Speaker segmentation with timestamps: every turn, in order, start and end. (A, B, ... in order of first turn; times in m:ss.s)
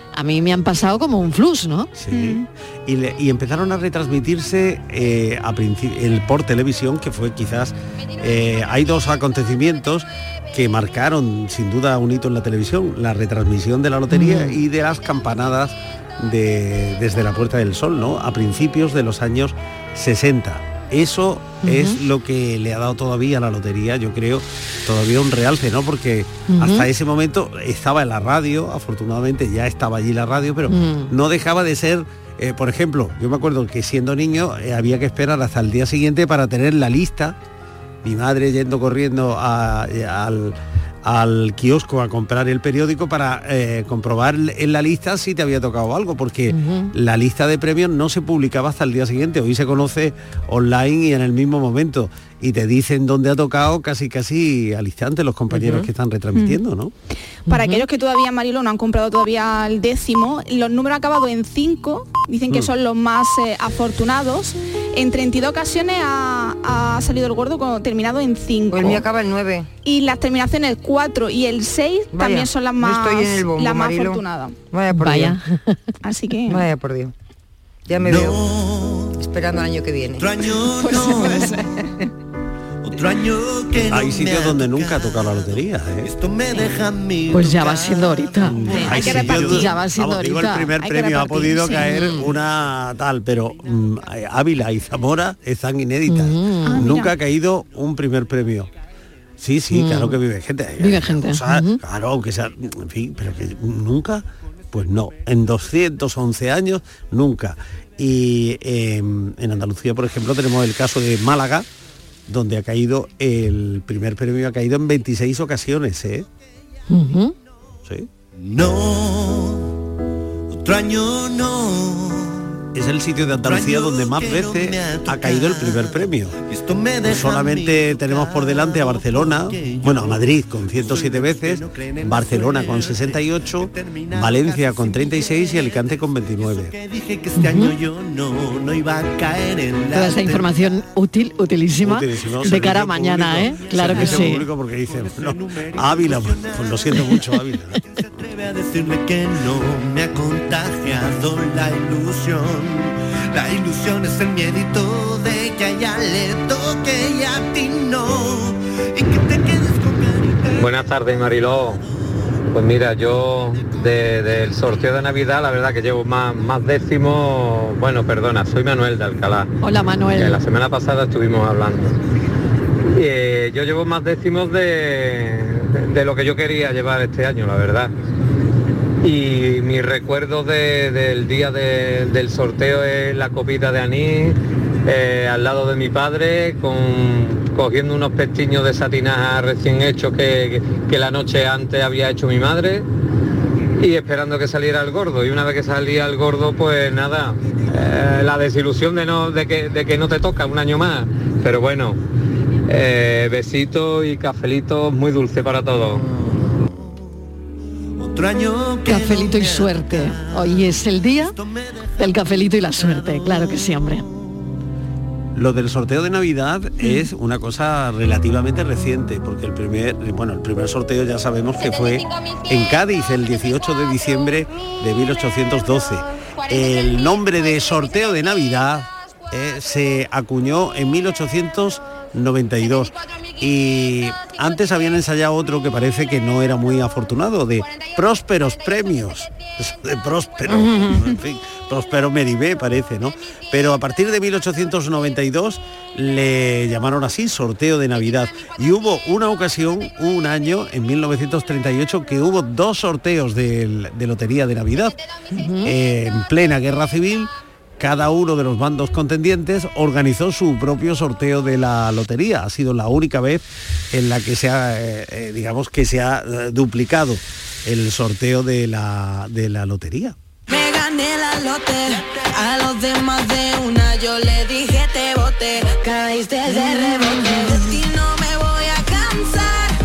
0:00.1-0:01.9 A
0:02.0-0:37.4 B
0:02.1-0:02.4 C
0:14.1-0:14.6 A
0:21.6-0:22.0 A
0:26.5-0:26.9 A
0:30.7-0:31.1 A
0:38.0-0:56.9 B
0:46.5-0:46.9 A
0:56.4-0:56.6 C
0:57.5-1:09.1 C
0:57.5-0:57.8 A
1:08.7-1:09.7 D
1:09.8-1:14.6 C
1:12.1-1:15.4 D
1:14.9-1:15.9 A
1:16.0-1:16.7 C
1:16.5-1:17.1 D
1:17.9-1:18.4 D
1:18.0-1:19.2 E
1:19.2-1:20.3 D
1:20.2-1:21.7 E
1:20.8-1:21.6 A
1:21.0-1:21.4 C
1:22.8-1:29.6 E
1:23.9-1:26.1 B
1:27.3-1:32.2 A
1:28.5-1:38.7 B
1:28.8-1:29.7 C
1:31.4-1:32.0 C
1:36.1-1:36.8 A
1:36.7-1:37.1 C
1:39.4-1:51.7 B
1:39.7-1:40.2 A
1:40.8-1:41.8 A
1:52.3-1:56.3 B
1:56.9-1:57.3 A
1:58.4-1:59.7 E
2:00.5-2:02.6 E
2:02.8-2:06.4 B
2:03.4-2:20.6 E
2:07.0-2:16.8 B
2:17.4-2:17.7 A
2:19.9-2:24.4 A
2:21.8-2:27.8 B
2:23.6-2:27.2 E
2:27.8-2:40.8 E
2:40.6-2:41.8 F
2:42.5-2:49.5 F
2:49.6-2:50.4 A
2:50.2-2:52.0 F
2:52.9-2:57.9 F
2:59.0-3:12.8 F
3:13.8-3:22.0 F
3:22.7-3:26.0 F
3:26.6-3:27.1 E
3:28.0-3:34.4 E
3:28.9-3:31.4 A
3:32.0-3:34.1 A
3:35.4-4:15.0 B
4:00.5-4:01.0 D
4:15.4-4:15.7 A
4:15.6-4:30.2 B
4:32.6-4:36.4 G
4:37.8-4:38.8 G